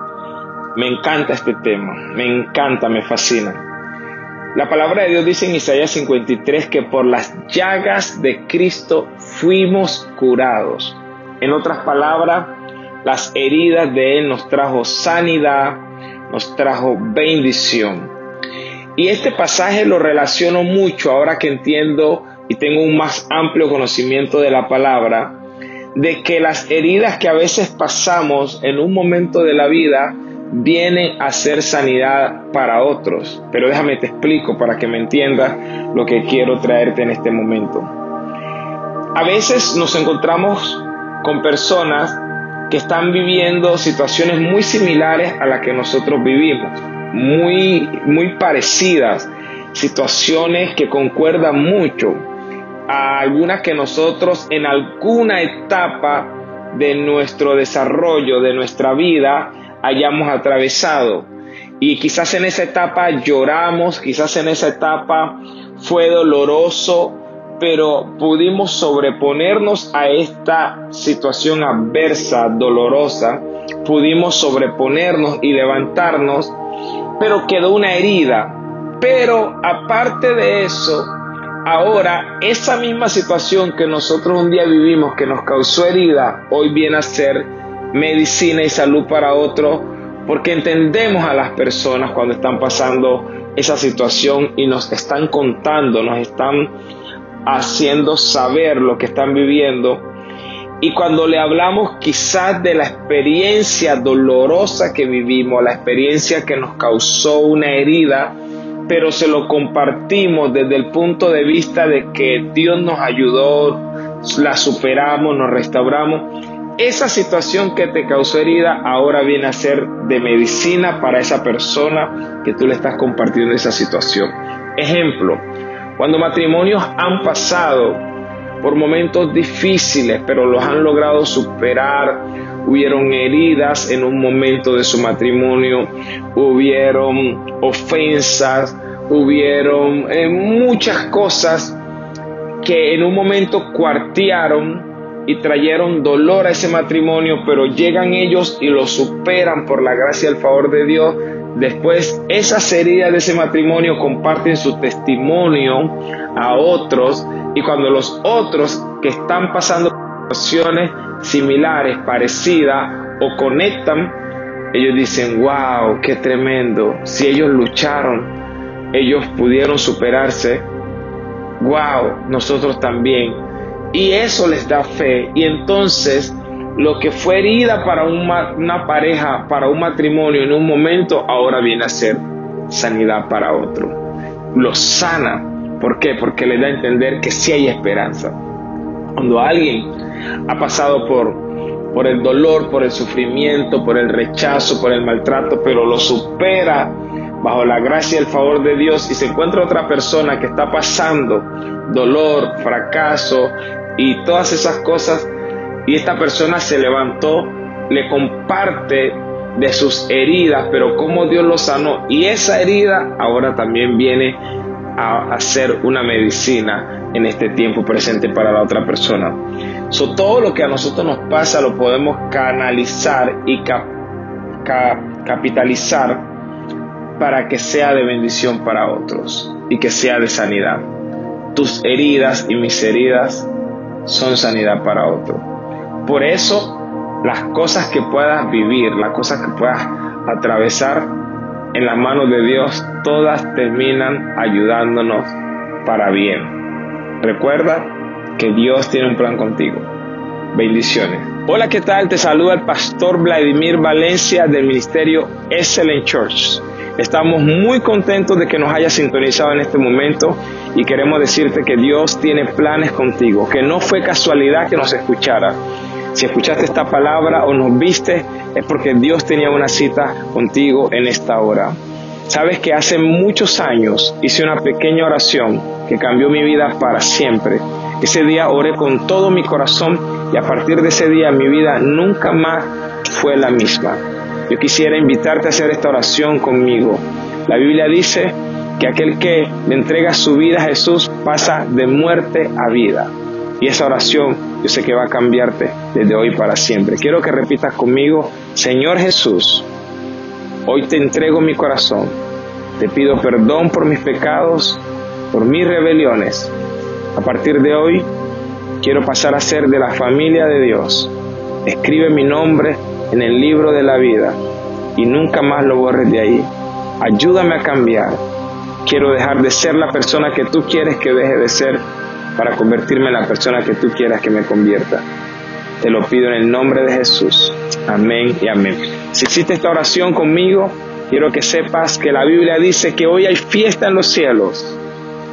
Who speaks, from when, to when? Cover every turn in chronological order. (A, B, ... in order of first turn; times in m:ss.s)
0:00.8-0:03.6 A
0:04.6-0:18.1 A
0:19.0-0:25.4 A
0:25.9-0:37.9 A
0:39.2-0:52.2 A
0:52.9-1:16.6 A
1:17.2-1:36.7 A
1:37.5-1:40.1 A
1:40.8-1:48.4 A
1:48.9-2:05.4 A
2:06.0-2:08.0 A
2:08.6-2:21.8 A
2:22.6-2:44.2 A
2:44.7-2:48.3 A
2:48.9-2:50.7 A
2:51.6-2:53.4 A
2:53.9-3:04.0 A
3:04.5-3:08.4 A
3:09.2-3:09.9 A
3:10.5-3:11.4 A
3:11.9-3:25.3 A
3:25.9-3:34.4 A
3:35.0-3:39.4 A
3:39.9-3:43.9 A
3:44.6-3:46.3 A
3:47.2-3:50.9 A
3:51.5-3:53.5 A
3:54.1-3:55.4 A
3:56.0-4:01.1 A
4:01.7-4:06.5 A
4:07.2-4:09.9 A
4:10.5-4:25.6 A
4:26.1-4:31.8 A
4:32.3-4:59.7 A
5:00.7-5:02.2 A
5:02.8-5:06.5 A
5:07.2-5:08.1 A
5:08.8-5:11.1 A
5:11.6-5:14.4 A
5:15.0-5:16.5 A
5:17.0-5:18.2 A
5:18.8-5:21.8 A
5:22.4-5:25.0 A
5:25.8-5:34.8 A